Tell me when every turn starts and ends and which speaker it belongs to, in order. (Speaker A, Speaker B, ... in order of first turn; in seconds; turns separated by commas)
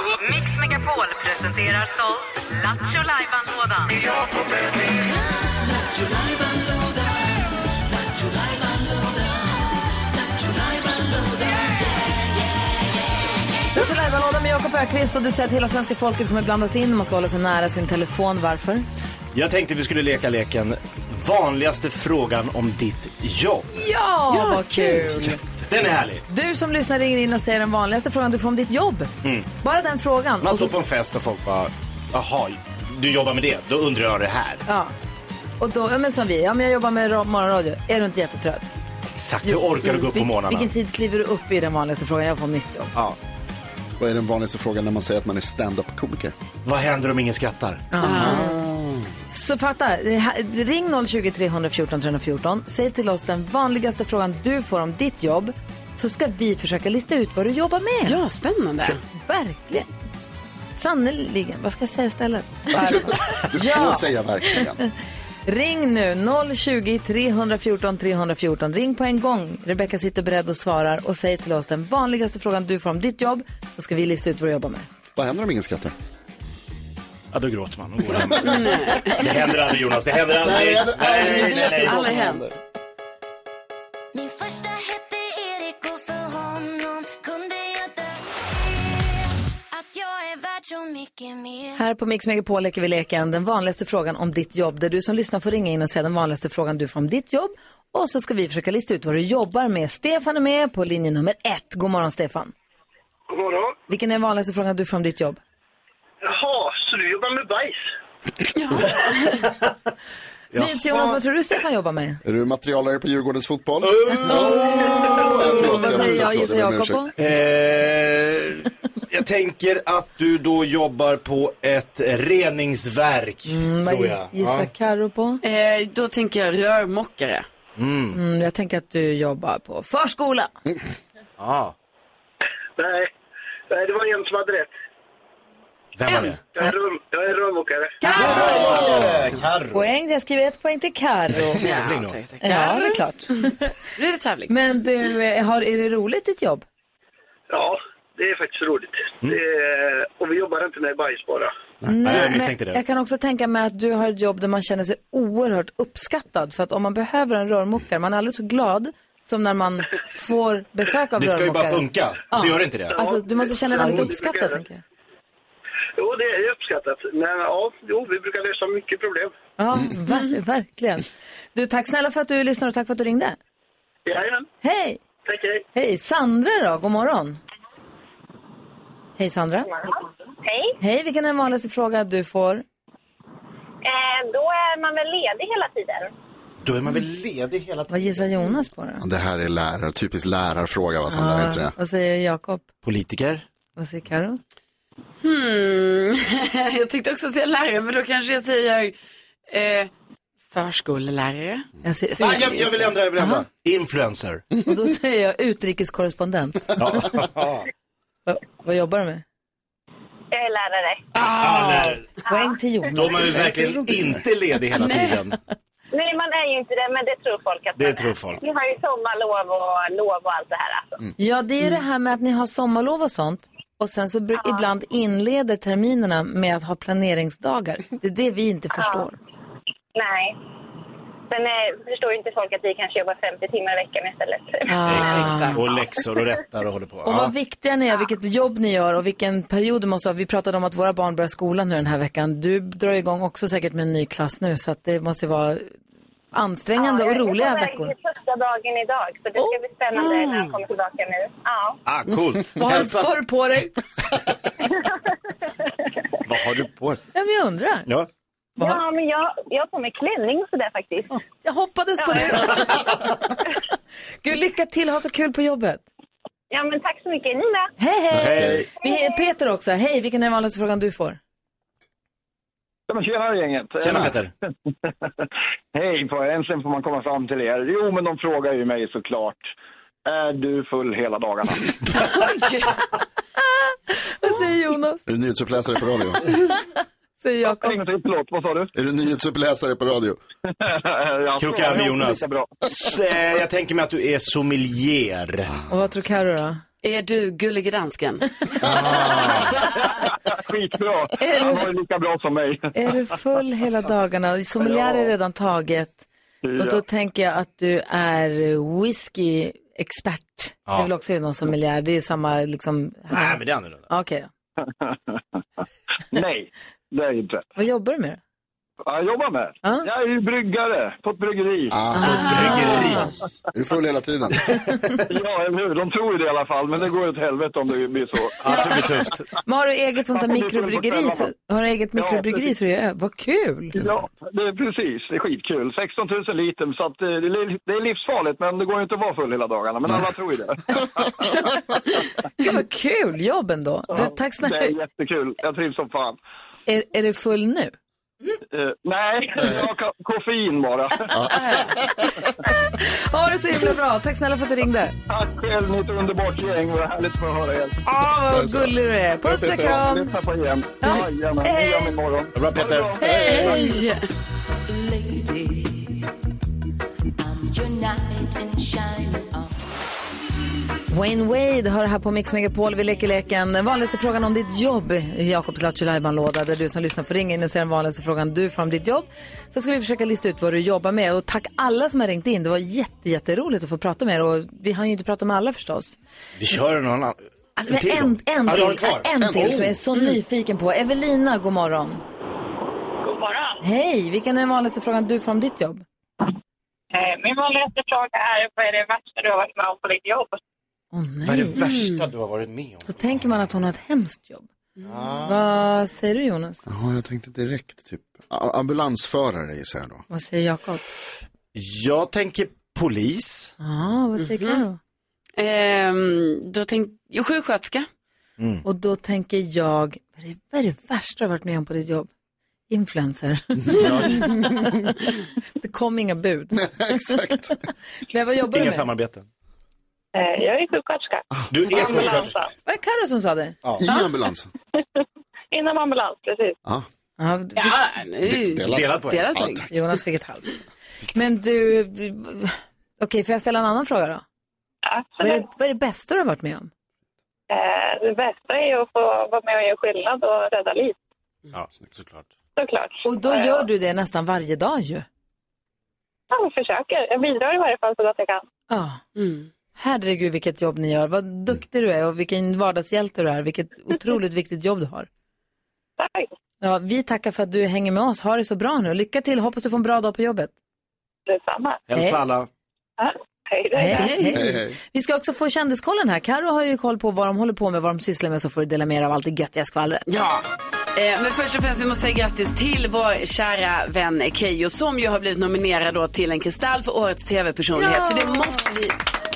Speaker A: 0.2-3.9, Speaker B: 13.7-18.8, Speaker C: 19.3-23.7, Speaker B: 23.7-25.4, Speaker D: 24.3-25.3, Speaker C: 25.6-26.2, Speaker B: 26.3-29.1, Speaker B: 29.6-30.8, Speaker C: 30.4-34.6, Speaker B: 34.7-34.9, Speaker B: 35.6-38.7, Speaker C: 39.1-40.7, Speaker B: 39.5-42.9, Speaker E: 44.0-46.3, Speaker C: 46.6-47.9, Speaker B: 47.9-48.6, Speaker D: 48.0-48.6, Speaker E: 48.2-48.7, Speaker B: 49.3-58.2, Speaker D: 58.0-59.0, Speaker B: 59.1-59.9, Speaker B: 60.8-64.1, Speaker E: 62.7-64.8, Speaker B: 65.5-74.9, Speaker E: 75.1-75.9, Speaker C: 77.3-82.2, Speaker D: 78.3-79.5, Speaker E: 80.4-82.5, Speaker D: 81.0-82.5, Speaker F: 84.1-91.8, Speaker B: 91.8-102.5, Speaker G: 103.3-103.8, Speaker B: 103.9-105.4, Speaker G: 106.2-107.8, Speaker D: 108.5-109.4, Speaker C: 110.5-111.0, Speaker B: 110.6-112.2, Speaker E: 112.2-117.1, Speaker C: 113.8-115.8, Speaker B: 114.2-117.1, Speaker C: 117.2-124.7, Speaker B: 123.5-125.4, Speaker D: 125.4-127.5, Speaker C: 127.8-128.2, Speaker B: 128.1-130.5, Speaker C: 131.4-131.7, Speaker G: 132.8-133.1, Speaker G: 133.7-134.7, Speaker C: 135.9-136.4, Speaker D: 136.1-136.4, Speaker G: 136.5-138.0, Speaker B: 138.0-139.1, Speaker C: 138.1-139.9, Speaker D: 138.2-138.7, Speaker B: 139.7-141.6, Speaker C: 141.3-142.2, Speaker D: 141.6-144.5, Speaker B: 142.4-143.7, Speaker B: 144.5-146.6, Speaker G: 147.5-151.5, Speaker B: 151.8-164.8, Speaker C: 151.9-152.8, Speaker C: 161.2-163.0, Speaker G: 162.9-164.6, Speaker C: 163.7-164.1, Speaker G: 166.0-169.3, Speaker B: 169.6-173.4, Speaker G: 174.1-174.4, Speaker B: 174.6-175.0, Speaker G: 175.2-175.6, Speaker B: 175.7-177.4, Speaker B: 179.2-179.7, Speaker H: 180.4-180.7, Speaker B: 180.8-182.6, Speaker H: 183.8-186.1, Speaker C: 186.6-188.2, Speaker B: 187.9-189.0, Speaker E: 189.0-191.7, Speaker B: 191.1-192.7, Speaker C: 192.8-193.4, Speaker B: 193.8-194.4, Speaker D: 195.2-198.9, Speaker D: 199.5-199.9, Speaker D: 200.5-202.8, Speaker B: 201.8-202.4, Speaker C: 202.2-204.4, Speaker B: 203.2-203.4, Speaker B: 204.6-207.3, Speaker C: 206.8-207.7, Speaker B: 208.2-209.2, Speaker H: 210.3-211.2, Speaker C: 211.2-212.1, Speaker B: 211.2-214.1, Speaker C: 212.9-215.4, Speaker D: 214.8-215.2, Speaker H: 215.9-221.0, Speaker C: 217.8-218.4, Speaker B: 221.2-229.2, Speaker H: 228.8-229.0, Speaker H: 229.9-230.3, Speaker H: 231.3-234.7, Speaker B: 234.7-235.6, Speaker C: 234.8-237.3, Speaker D: 235.0-235.8, Speaker B: 237.0-245.7, Speaker B: 246.3-247.9, Speaker H: 246.8-251.8, Speaker D: 249.9-250.6, Speaker C: 251.8-253.2, Speaker B: 252.6-253.8, Speaker C: 256.2-257.0, Speaker B: 257.1-257.9, Speaker H: 258.6-261.2, Speaker B: 261.4-262.9, Speaker H: 262.0-262.7, Speaker B: 264.2-265.8, Speaker H: 266.5-267.7, Speaker B: 267.8-271.2, Speaker C: 268.1-268.7, Speaker E: 268.2-268.6, Speaker I: 272.9-274.2, Speaker C: 273.8-274.3, Speaker I: 274.9-279.5, Speaker I: 280.0-281.7, Speaker D: 281.9-282.8, Speaker B: 283.5-285.0, Speaker E: 285.1-286.2, Speaker B: 286.3-286.6, Speaker B: 287.2-287.8, Speaker I: 287.5-288.7, Speaker E: 288.7-290.2, Speaker I: 290.6-292.5, Speaker C: 291.4-295.5, Speaker B: 295.7-296.6, Speaker D: 296.8-298.3, Speaker C: 298.6-299.5, Speaker I: 299.8-302.7, Speaker B: 301.2-301.7, Speaker B: 302.7-306.1, Speaker I: 304.6-305.1, Speaker I: 306.4-306.8, Speaker B: 306.6-314.3, Speaker C: 313.1-313.8, Speaker I: 314.6-315.2, Speaker I: 316.1-317.5, Speaker B: 317.6-318.2, Speaker I: 318.9-321.8, Speaker E: 321.7-323.0, Speaker B: 322.0-323.1, Speaker C: 322.0-323.2, Speaker E: 323.5-324.4, Speaker I: 325.1-328.9, Speaker C: 328.4-329.3, Speaker B: 329.4-333.8, Speaker I: 330.1-331.3, Speaker I: 331.9-332.5, Speaker I: 333.7-341.2, Speaker B: 342.4-344.7, Speaker I: 343.9-346.2, Speaker B: 346.7-347.7, Speaker I: 348.5-351.1, Speaker E: 351.1-351.4, Speaker D: 351.3-351.8, Speaker B: 352.5-354.9, Speaker I: 355.1-357.8, Speaker B: 357.8-360.1, Speaker E: 358.3-358.7, Speaker I: 359.4-363.7, Speaker B: 360.8-361.9, Speaker C: 362.3-363.1, Speaker B: 363.0-363.8, Speaker D: 363.1-364.1, Speaker B: 370.9-386.0, Speaker C: 386.4-389.8, Speaker B: 387.6-392.0, Speaker E: 389.2-389.7, Speaker J: 393.0-393.6, Speaker B: 393.6-395.8, Speaker J: 396.9-400.4, Speaker B: 400.9-401.6, Speaker C: 401.2-402.9, Speaker D: 401.6-402.0, Speaker B: 402.8-404.5, Speaker C: 404.8-405.4, Speaker B: 405.2-406.6, Speaker E: 406.6-410.0, Speaker B: 410.1-410.8, Speaker C: 411.5-413.5, Speaker B: 413.6-414.8, Speaker D: 414.2-414.6, Speaker D: 415.4-417.9, Speaker C: 418.4-418.6, Speaker B: 418.6-422.1, Speaker B: 422.7-425.0, Speaker C: 423.7-424.2, Speaker B: 425.6-427.5, Speaker E: 426.5-427.6, Speaker B: 428.1-428.9, Speaker C: 428.5-429.2, Speaker J: 430.1-432.5, Speaker C: 431.5-432.4, Speaker B: 432.6-433.6, Speaker E: 433.8-434.5, Speaker J: 435.5-436.6, Speaker B: 437.2-437.8, Speaker D: 437.6-439.7, Speaker E: 438.2-439.6, Speaker C: 438.7-439.2, Speaker B: 439.7-440.5, Speaker B: 441.1-444.2, Speaker J: 444.8-445.4, Speaker B: 445.2-446.7, Speaker J: 447.5-451.0, Speaker C: 451.5-452.3, Speaker J: 452.6-453.6, Speaker B: 453.0-455.1, Speaker J: 456.3-458.4, Speaker B: 458.7-459.0, Speaker D: 459.1-459.5, Speaker B: 459.8-465.1, Speaker J: 466.0-466.3, Speaker B: 466.6-470.5, Speaker J: 471.3-471.8, Speaker C: 471.9-472.5, Speaker J: 473.0-474.1, Speaker B: 473.7-480.1, Speaker D: 474.0-474.3, Speaker E: 474.3-474.8, Speaker D: 480.1-488.9, Speaker B: 487.8-488.8